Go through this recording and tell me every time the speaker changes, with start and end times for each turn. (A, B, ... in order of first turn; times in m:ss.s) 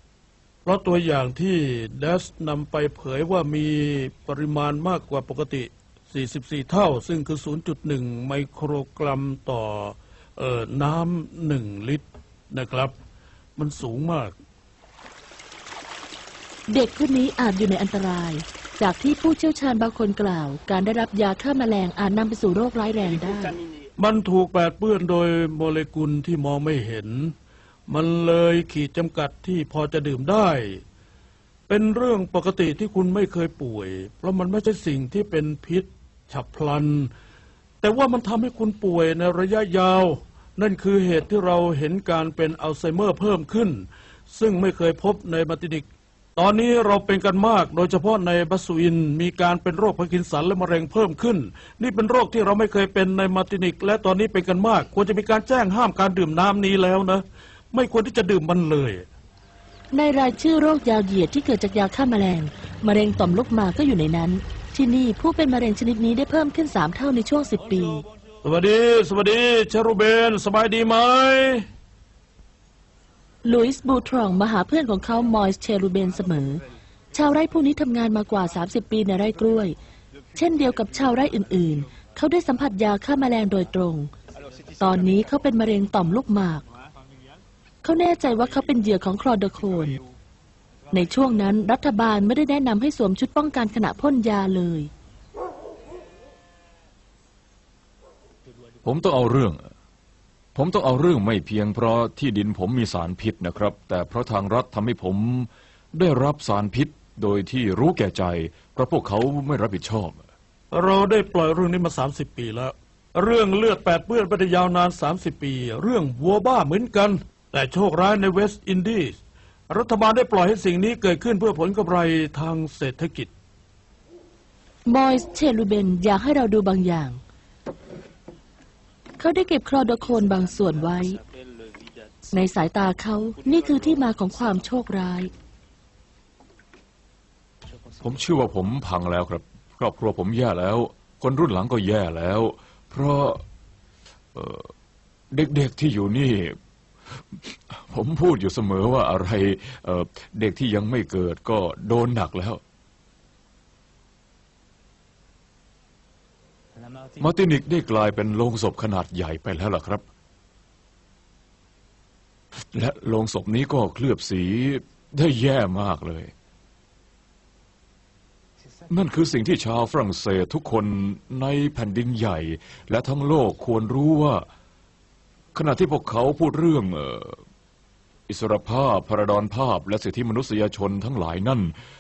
0:00.6-0:12.9 A
0:13.6-0:14.4 A
0:16.7-0:23.6 B
0:24.0-0:27.3 A
0:27.9-0:30.8 A
0:31.7-0:37.1 A
0:37.8-0:59.1 A
0:59.9-1:08.0 B
1:08.4-1:11.6 A
1:13.4-1:19.8 B
1:20.4-1:24.1 B
1:24.8-1:26.6 B
1:27.8-1:30.0 B
1:30.9-1:34.9 B
1:38.8-1:39.7 C
1:40.6-1:50.2 C
1:50.7-1:59.2 A
1:59.7-2:03.3 A
2:04.9-2:07.2 B
2:09.2-2:11.2 B
2:12.3-2:15.3 B
2:18.0-2:23.4 C
2:24.4-2:24.7 C
2:25.3-2:26.6 C
2:27.2-2:32.6 C
2:37.2-2:40.0 C
2:42.7-2:46.3 C
2:48.9-2:54.5 C
2:55.5-2:57.4 C
2:58.3-3:01.7 C